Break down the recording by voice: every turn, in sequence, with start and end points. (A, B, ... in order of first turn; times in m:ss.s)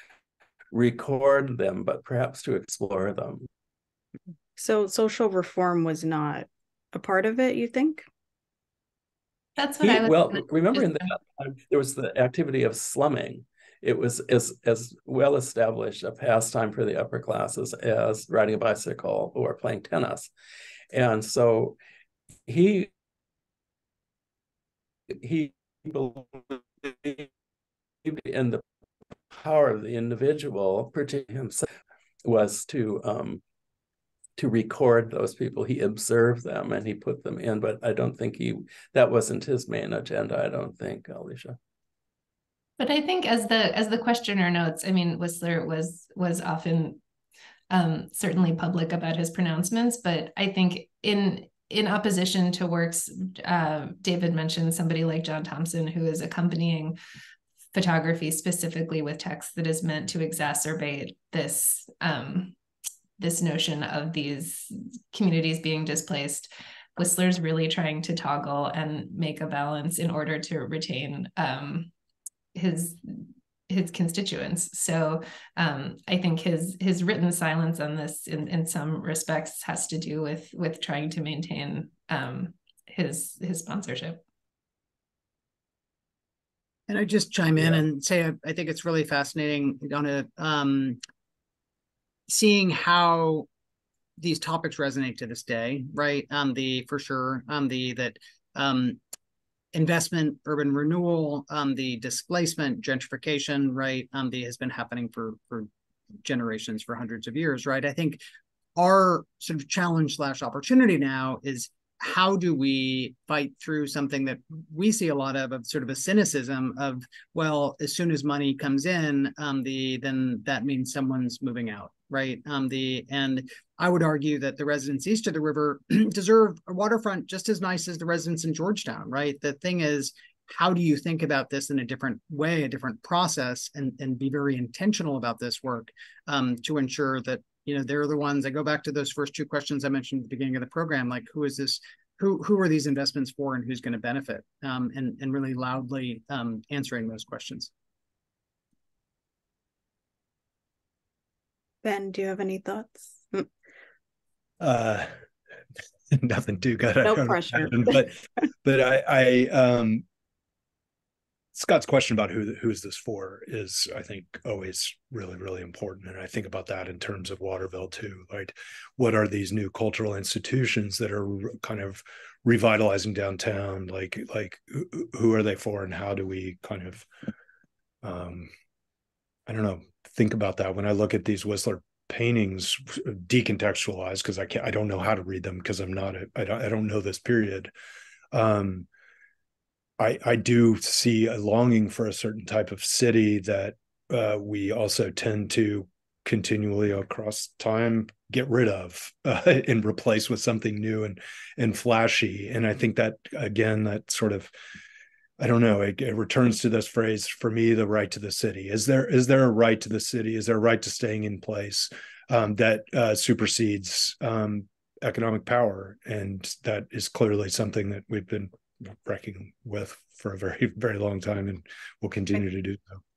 0:00.7-0:03.5 A
0:04.6-0:08.0 B
0:09.6-0:10.9 C
0:09.8-0:20.3 A
0:20.9-0:21.8 A
0:22.5-0:22.9 A
0:25.1-0:27.3 A
0:28.0-0:28.6 A
0:29.3-0:31.7 A
0:32.2-0:33.4 A
0:34.4-0:41.6 A
0:42.8-0:47.0 C
0:47.7-0:57.0 C
0:57.7-1:02.5 C
1:03.2-1:11.9 C
1:12.5-1:24.2 C
1:26.9-1:31.0 D
1:32.3-1:33.5 D
1:34.2-1:39.0 D
1:39.7-1:45.7 D
1:46.2-1:48.2 D
1:48.8-2:27.7 D
2:31.8-2:33.5 B
2:34.6-2:35.1 E
2:36.1-2:40.0 E
2:37.0-2:38.0 B
2:41.5-2:57.0 E
2:58.0-2:58.5 E
2:59.5-3:07.7 E
3:08.3-3:08.9 E
3:10.0-3:24.5 E
3:25.4-3:43.0 E